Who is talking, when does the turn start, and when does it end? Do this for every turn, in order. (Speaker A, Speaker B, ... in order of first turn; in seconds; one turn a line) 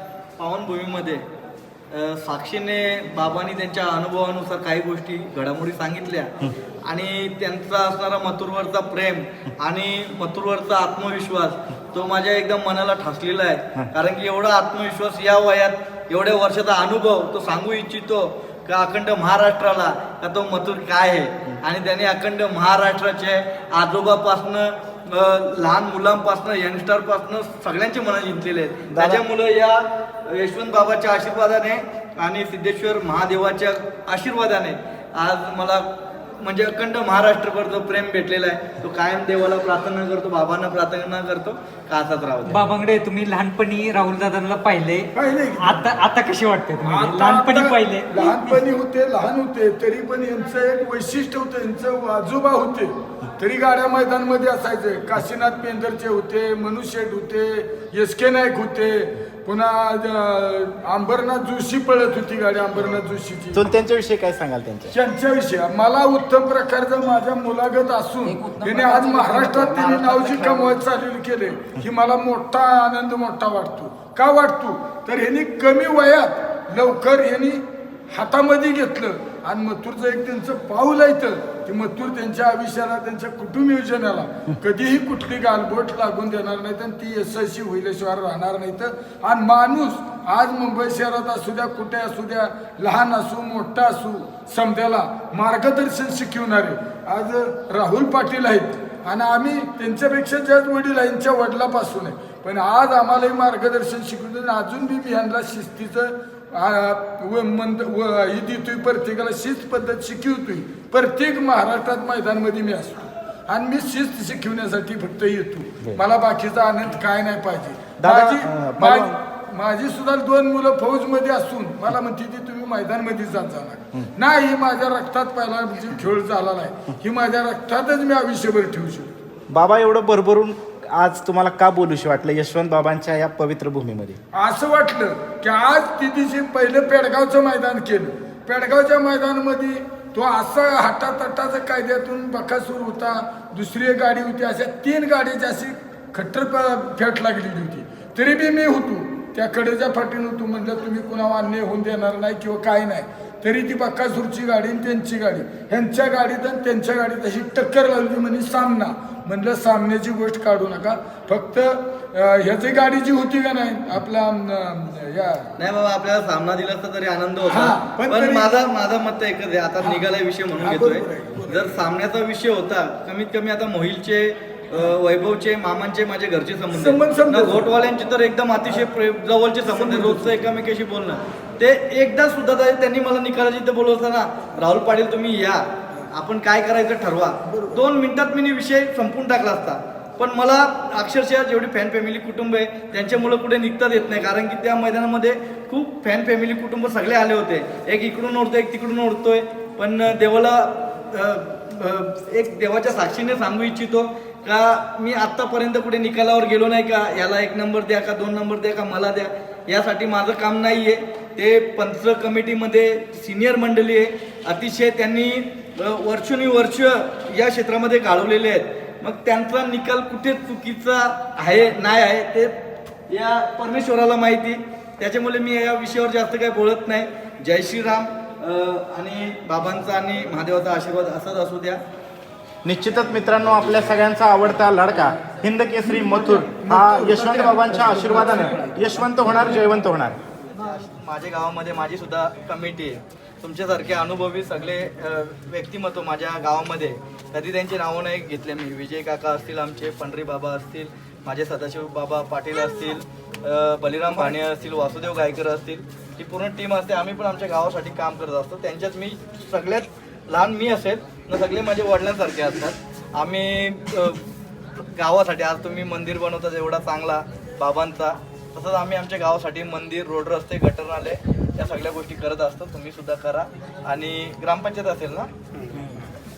Speaker A: 0.4-1.3
Speaker A: 1.9-35.9
Speaker B: 28.9-29.2
Speaker A: 36.4-42.7
Speaker C: 42.5-48.6
Speaker D: 45.1-45.9
Speaker D: 46.8-63.6
Speaker B: 63.5-64.9
Speaker D: 64.9-129.2
Speaker C: 68.3-70.4
Speaker A: 69.8-70.7
Speaker B: 118.0-119.2
Speaker B: 129.5-134.2
Speaker D: 134.3-165.5
Speaker A: 165.6-222.6
Speaker D: 167.5-168.5
Speaker D: 170.6-171.8
Speaker D: 176.7-177.7
Speaker D: 179.7-180.3
Speaker D: 187.5-187.8
Speaker A: 223.1-231.8
Speaker B: 232.6-240.2
Speaker D: 236.6-238.7
Speaker A: 240.6-264.2
Speaker A: 265.0-275.3